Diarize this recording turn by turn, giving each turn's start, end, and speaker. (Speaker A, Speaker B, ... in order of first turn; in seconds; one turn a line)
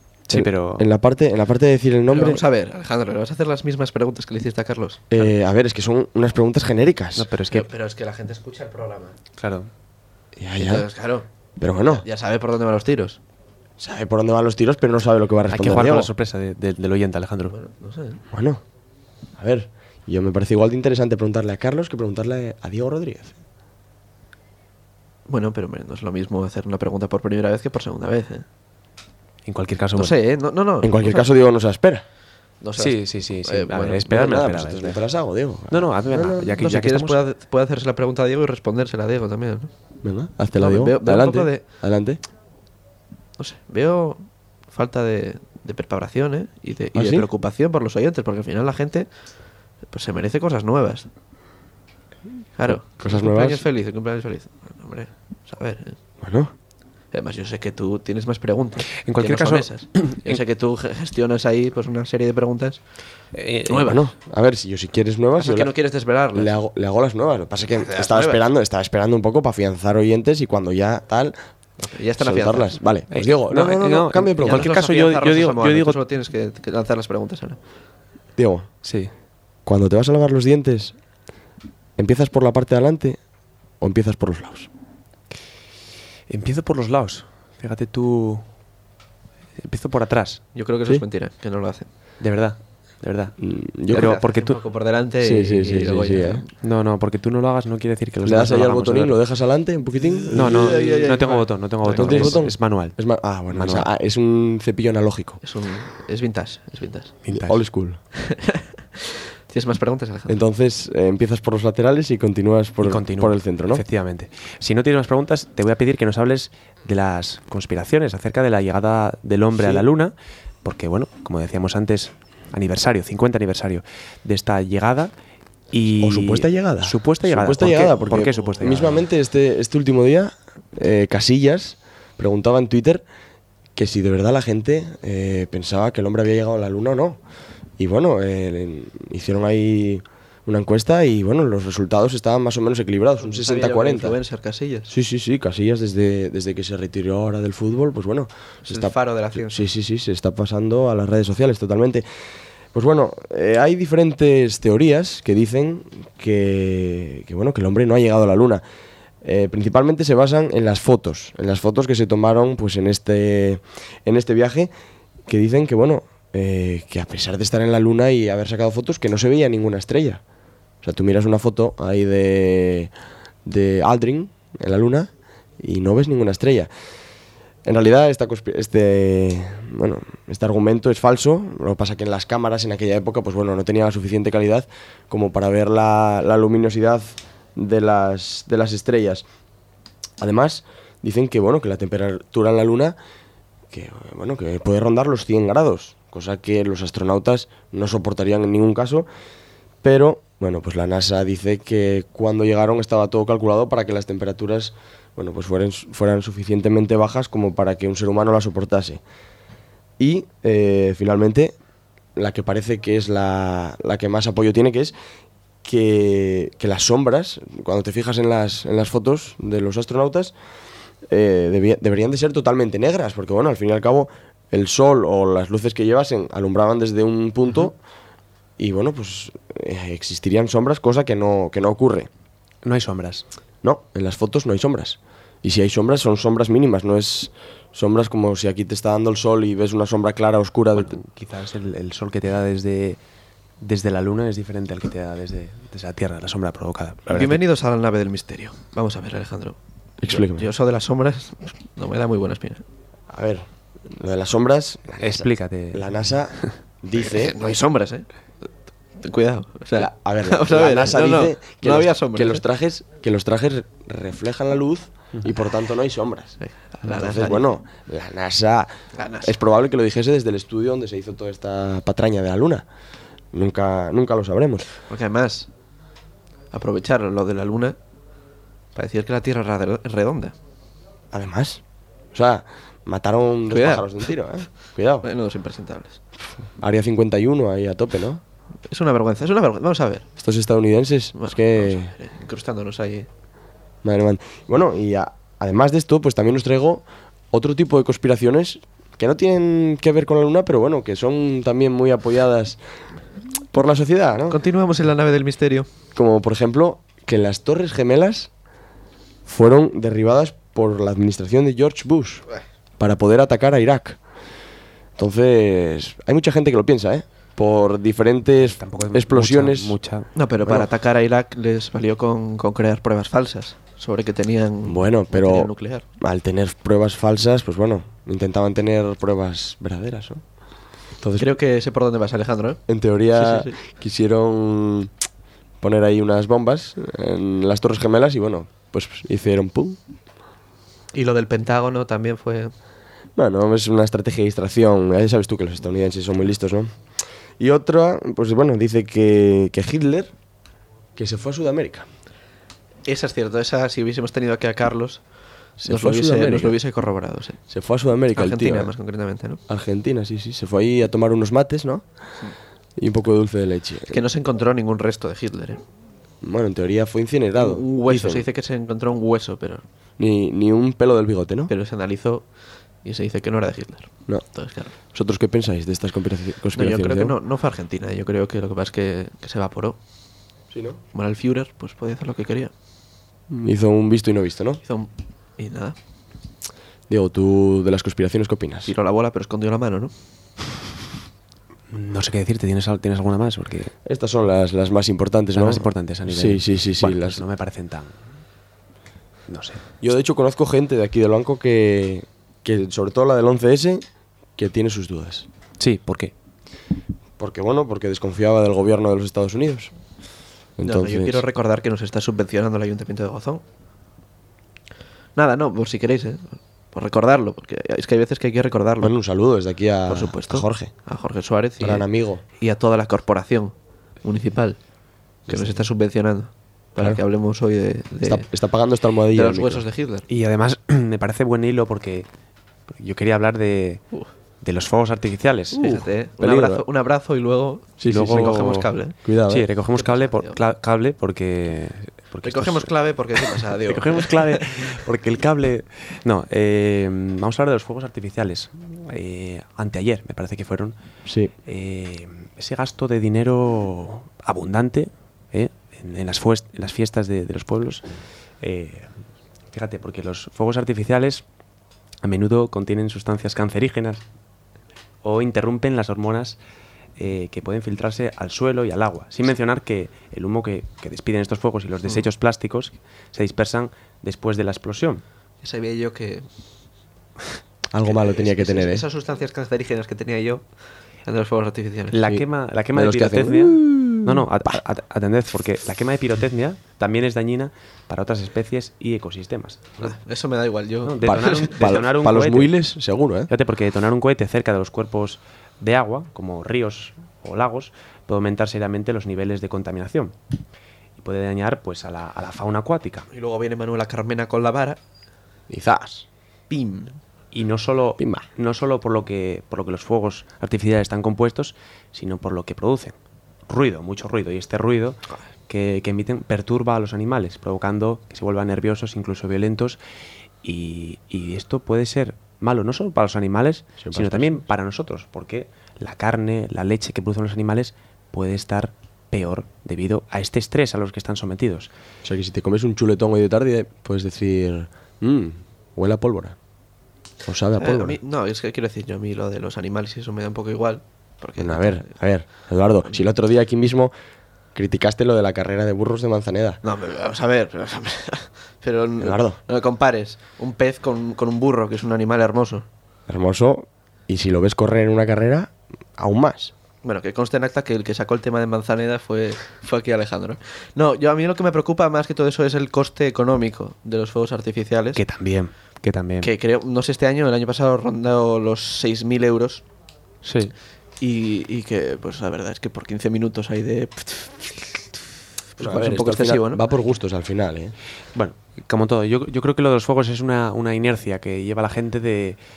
Speaker A: 0.3-0.9
Speaker B: 0.3-2.4
Speaker C: 2.1-5.3
Speaker B: 5.1-7.3
Speaker A: 7.2-7.7
Speaker C: 7.5-9.2
Speaker A: 9.4-9.7
Speaker B: 10.4-10.9
Speaker C: 10.6-11.3
Speaker B: 11.6-12.0
Speaker C: 11.9-13.2
Speaker B: 13.8-16.1
Speaker A: 15.5-17.5
Speaker C: 17.5-18.2
Speaker B: 18.3-18.6
Speaker B: 19.4-23.4
Speaker C: 25.3-28.4
Speaker A: 29.4-30.1
Speaker C: 30.0-31.3
Speaker B: 30.8-32.0
Speaker C: 32.6-34.1
Speaker A: 32.8-35.0
Speaker B: 34.1-36.6
Speaker A: 35.7-37.2
Speaker C: 36.6-39.7
Speaker B: 40.0-42.2
Speaker C: 40.6-41.6
Speaker C: 43.4-49.3
Speaker B: 46.9-47.3
Speaker C: 49.8-51.1
Speaker C: 52.6-56.0
Speaker B: 52.7-53.6
Speaker B: 56.2-56.5
Speaker C: 57.1-63.0
Speaker A: 59.0-60.3
Speaker A: 63.3-64.0
Speaker C: 63.7-64.0
Speaker B: 63.9-65.7
Speaker C: 65.4-66.5
Speaker B: 66.3-71.4
Speaker C: 67.8-68.4
Speaker C: 71.8-72.8
Speaker B: 72.2-74.7
Speaker A: 73.1-76.0
Speaker C: 74.4-77.6
Speaker B: 78.4-78.7
Speaker A: 78.8-79.1
Speaker B: 79.6-81.0
Speaker B: 82.0-83.2
Speaker B: 83.8-84.7
Speaker A: 86.3-88.5
Speaker A: 89.6-90.5
Speaker C: 90.5-91.9
Speaker A: 92.2-93.4
Speaker B: 93.4-94.1
Speaker A: 93.9-94.6
Speaker C: 93.9-96.5
Speaker B: 95.2-96.4
Speaker A: 96.6-99.2
Speaker B: 98.2-101.3
Speaker C: 100.0-102.4
Speaker A: 100.3-103.9
Speaker B: 101.9-105.4
Speaker C: 105.4-107.2
Speaker A: 107.2-107.6
Speaker B: 107.3-108.0
Speaker C: 108.2-110.4
Speaker B: 110.3-113.8
Speaker A: 112.8-120.1
Speaker B: 119.6-119.9
Speaker A: 120.6-125.1
Speaker A: 125.7-129.1
Speaker B: 126.0-133.1
Speaker B: 133.8-137.2
Speaker B: 137.8-144.2
Speaker C: 143.2-144.9
Speaker B: 144.9-152.1
Speaker C: 148.7-149.7
Speaker B: 152.7-158.6
Speaker B: 159.2-164.7
Speaker B: 165.3-170.2
Speaker B: 170.8-172.9
Speaker B: 173.4-176.7
Speaker B: 177.7-189.2
Speaker B: 190.2-193.0
Speaker B: 193.7-199.1
Speaker B: 199.8-209.0
Speaker B: 210.0-211.6
Speaker B: 212.2-214.9
Speaker B: 215.6-220.3
Speaker B: 221.1-227.8
Speaker B: 228.6-232.1
Speaker A: 232.6-233.2
Speaker B: 233.6-241.0
Speaker A: 240.7-243.0
Speaker A: 243.6-247.4
Speaker C: 247.1-252.6
Speaker B: 250.0-250.5
Speaker B: 253.1-257.5
Speaker A: 255.0-256.5
Speaker C: 257.0-262.4
Speaker B: 259.8-272.7
Speaker C: 266.4-267.4
Speaker C: 268.9-269.4
Speaker B: 273.3-274.7
Speaker C: 274.8-275.5
Speaker C: 276.5-277.8
Speaker C: 278.7-280.3
Speaker B: 281.1-285.1
Speaker C: 283.5-284.2
Speaker C: 285.0-286.0
Speaker B: 286.4-288.2
Speaker C: 288.7-290.1
Speaker B: 290.2-291.9
Speaker C: 291.2-293.1
Speaker B: 293.8-302.6
Speaker B: 303.5-304.4
Speaker C: 304.3-305.7
Speaker B: 305.9-308.3
Speaker B: 309.3-312.3
Speaker B: 312.8-314.0
Speaker B: 315.0-319.8
Speaker A: 318.4-320.1
Speaker C: 320.1-325.9
Speaker B: 324.7-330.2
Speaker B: 331.0-331.3
Speaker C: 331.2-333.6
Speaker B: 332.7-334.9
Speaker B: 335.6-339.8
Speaker C: 340.9-342.5
Speaker B: 343.2-346.8
Speaker B: 347.4-350.1
Speaker B: 351.0-351.9
Speaker C: 352.9-357.4
Speaker B: 355.6-356.6
Speaker B: 357.5-358.7
Speaker C: 358.1-359.4
Speaker B: 359.5-361.9
Speaker B: 362.8-364.0
Speaker C: 363.9-365.6
Speaker B: 366.2-368.2
Speaker C: 367.4-369.6
Speaker B: 370.0-371.5
Speaker C: 371.5-374.8
Speaker B: 374.9-377.1
Speaker C: 376.5-379.8
Speaker B: 380.5-380.8
Speaker C: 380.9-382.5
Speaker B: 383.3-384.6
Speaker C: 384.6-385.8
Speaker B: 386.9-388.7
Speaker C: 388.6-389.9
Speaker A: 391.7-393.7
Speaker B: 393.9-397.2
Speaker A: 395.3-397.9
Speaker A: 399.3-399.8
Speaker B: 399.8-405.3
Speaker A: 405.6-406.1
Speaker B: 407.2-409.7
Speaker B: 410.6-411.2
Speaker C: 410.6-413.4
Speaker C: 415.1-418.9
Speaker B: 418.8-420.7
Speaker C: 419.9-421.9
Speaker B: 421.6-422.2
Speaker C: 422.4-424.6
Speaker B: 425.3-425.6
Speaker C: 425.3-428.3
Speaker B: 428.0-429.6
Speaker C: 429.1-430.1
Speaker A: 430.1-432.1
Speaker A: 432.7-433.9
Speaker A: 434.4-436.6
Speaker C: 435.5-439.0
Speaker B: 437.8-438.4
Speaker A: 437.9-438.7
Speaker B: 439.0-439.5
Speaker A: 439.3-450.8
Speaker C: 439.8-440.4
Speaker C: 442.2-444.4
Speaker B: 451.1-451.3
Speaker A: 451.4-457.8
Speaker A: 458.4-458.9
Speaker A: 459.5-461.2
Speaker A: 462.0-464.0
Speaker A: 465.0-466.4
Speaker A: 467.0-475.0
Speaker C: 475.4-476.3
Speaker B: 477.7-478.8
Speaker C: 477.8-480.5
Speaker C: 481.0-482.0
Speaker A: 481.9-489.8
Speaker B: 482.1-484.6
Speaker C: 489.8-491.7
Speaker A: 490.9-492.5
Speaker B: 491.6-493.3
Speaker A: 493.3-500.1
Speaker A: 501.0-503.1
Speaker C: 503.1-504.8
Speaker B: 505.5-506.1
Speaker C: 506.5-507.0
Speaker A: 507.3-513.0
Speaker B: 508.0-508.3
Speaker A: 513.5-519.8
Speaker A: 520.4-531.7
Speaker B: 523.8-524.4
Speaker B: 532.0-536.4
Speaker B: 537.2-538.0
Speaker C: 537.6-541.9
Speaker B: 541.4-543.9
Speaker B: 544.5-546.6
Speaker C: 546.6-552.7
Speaker B: 549.0-549.4
Speaker B: 553.1-556.5
Speaker C: 556.8-565.0
Speaker A: 565.0-566.3
Speaker C: 566.2-569.6
Speaker A: 570.2-570.5
Speaker C: 571.0-575.0
Speaker C: 575.5-576.6
Speaker B: 575.6-577.8
Speaker A: 578.1-582.4